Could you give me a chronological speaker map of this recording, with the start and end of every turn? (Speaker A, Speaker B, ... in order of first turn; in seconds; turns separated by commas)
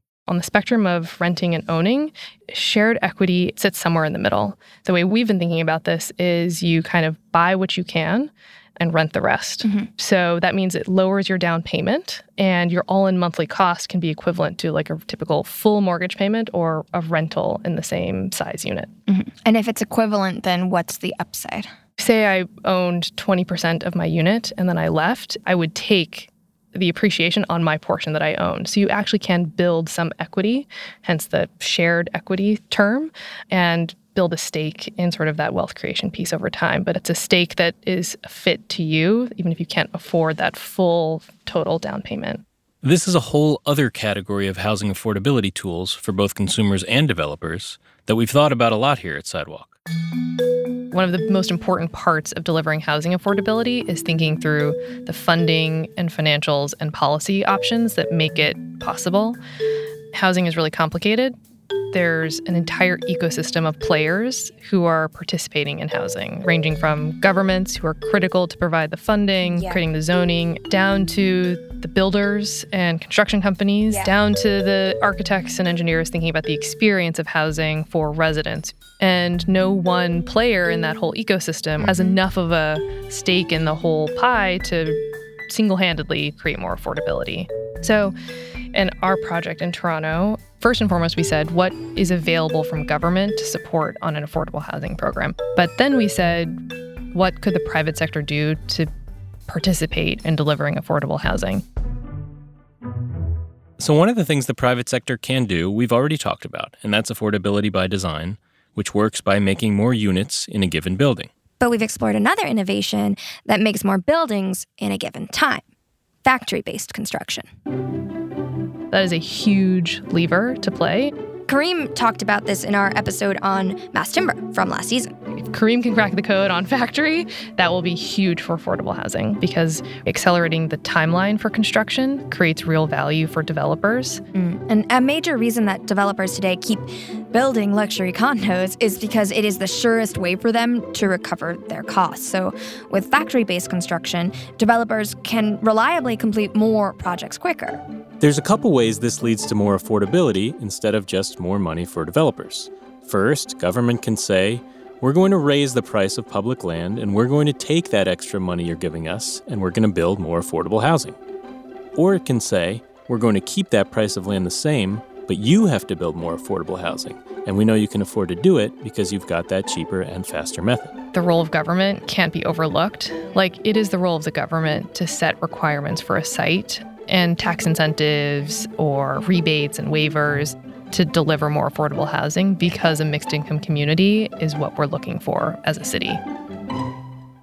Speaker A: 0.3-18.9, Speaker B: 9.6-9.9, Speaker B: 19.1-21.7, Speaker A: 22.0-42.4, Speaker C: 42.8-49.8, Speaker A: 50.9-59.4, Speaker A: 60.1-61.4, Speaker A: 61.9-88.1, Speaker B: 69.4-69.8, Speaker B: 81.8-82.2, Speaker A: 88.7-96.6, Speaker A: 97.1-98.9, Speaker A: 99.5-101.6, Speaker C: 103.8-111.3, Speaker B: 111.6-115.6, Speaker B: 116.2-117.5, Speaker A: 118.9-121.1, Speaker B: 121.5-125.2, Speaker A: 125.4-134.2, Speaker B: 134.3-147.8, Speaker C: 148.2-161.2, Speaker C: 161.9-170.9, Speaker A: 171.1-186.2